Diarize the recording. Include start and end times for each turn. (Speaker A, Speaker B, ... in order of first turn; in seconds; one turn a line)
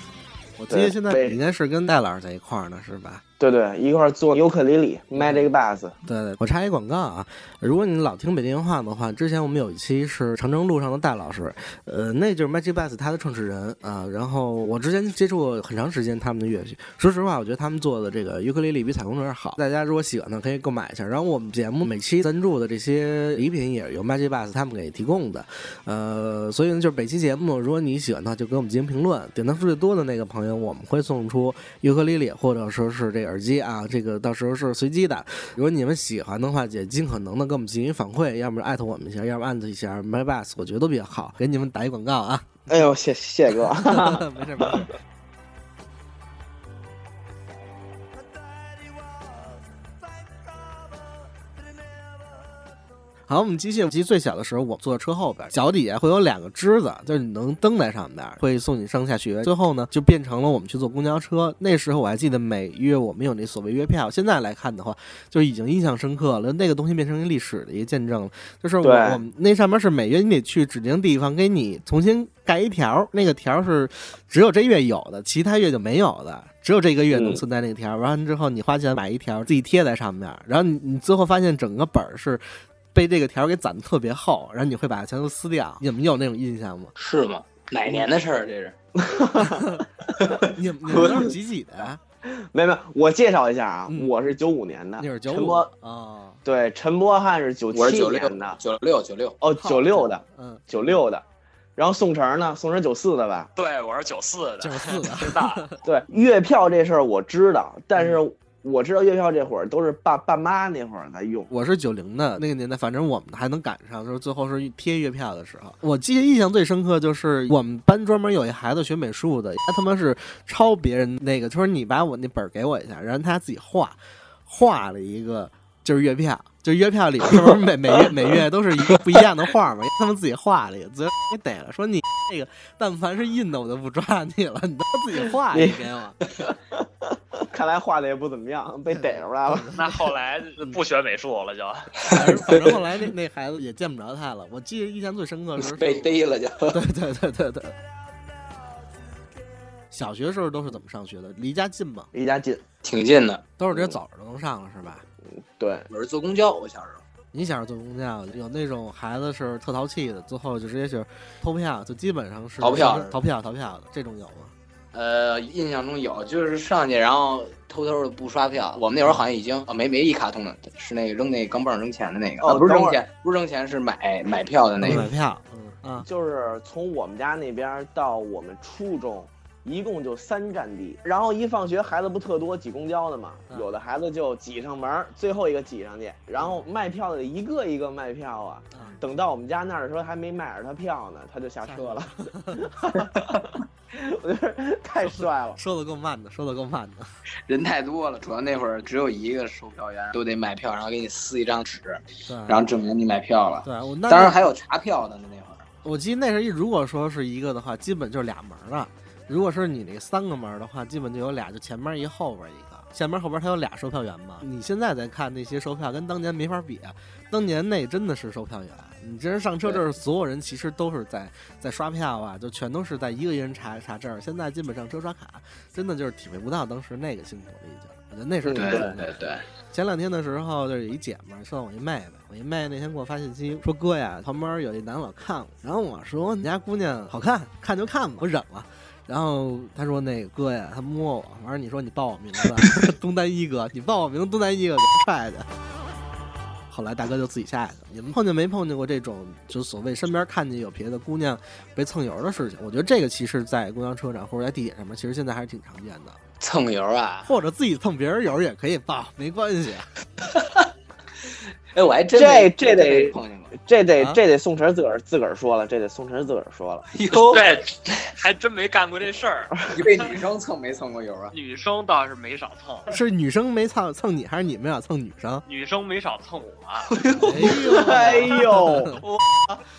Speaker A: 0.6-3.2
Speaker B: 0.7-1.4
Speaker B: 3.4-6.0
Speaker A: 5.2-5.4
Speaker A: 6.0-42.8
Speaker B: 42.7-44.8
Speaker A: 43.8-44.9
Speaker A: 53.3-86.9
Speaker B: 68.8-69.2
Speaker B: 77.1-77.4
Speaker C: 87.0-88.7
Speaker B: 89.0-89.8
Speaker A: 89.4-89.8
Speaker C: 90.2-91.3
Speaker A: 90.5-92.0
Speaker B: 90.9-91.3
Speaker B: 92.2-95.7
Speaker A: 95.0-96.4
Speaker B: 96.4-98.6
Speaker C: 97.7-99.4
Speaker B: 99.4-101.2
Speaker A: 99.6-100.6
Speaker B: 101.8-103.5
Speaker D: 103.5-105.7
Speaker A: 104.6-105.7
Speaker B: 105.8-111.5
Speaker A: 108.0-108.2
Speaker A: 111.5-136.2
Speaker B: 135.5-135.8
Speaker B: 137.4-139.7
Speaker A: 138.9-139.9
Speaker D: 139.7-141.9
Speaker A: 142.1-146.1
Speaker C: 142.2-142.6
Speaker C: 145.6-146.8
Speaker A: 146.7-147.7
Speaker A: 149.9-152.1
Speaker B: 152.1-152.6
Speaker C: 152.8-153.4
Speaker A: 153.6-155.0
Speaker B: 155.6-155.9
Speaker C: 155.9-157.0
Speaker A: 157.3-164.5
Speaker C: 162.6-163.2
Speaker C: 164.9-175.1
Speaker B: 172.4-173.0
Speaker A: 174.8-176.1
Speaker B: 176.0-195.6
Speaker A: 186.4-186.6
Speaker A: 191.7-192.6
Speaker A: 195.0-197.1
Speaker C: 197.5-205.7
Speaker A: 202.3-202.6
Speaker A: 203.6-204.4
Speaker A: 205.8-229.1
Speaker C: 228.5-229.4
Speaker A: 229.7-245.5
Speaker A: 246.7-256.2
Speaker C: 256.4-257.3
Speaker A: 257.2-259.9
Speaker C: 260.2-260.7
Speaker C: 261.3-263.5
Speaker B: 262.1-266.9
Speaker C: 266.9-267.5
Speaker D: 267.3-269.8
Speaker C: 269.7-271.3
Speaker D: 271.3-272.9
Speaker A: 272.9-275.4
Speaker D: 275.4-276.9
Speaker C: 276.9-277.9
Speaker A: 277.2-279.0
Speaker B: 277.5-279.0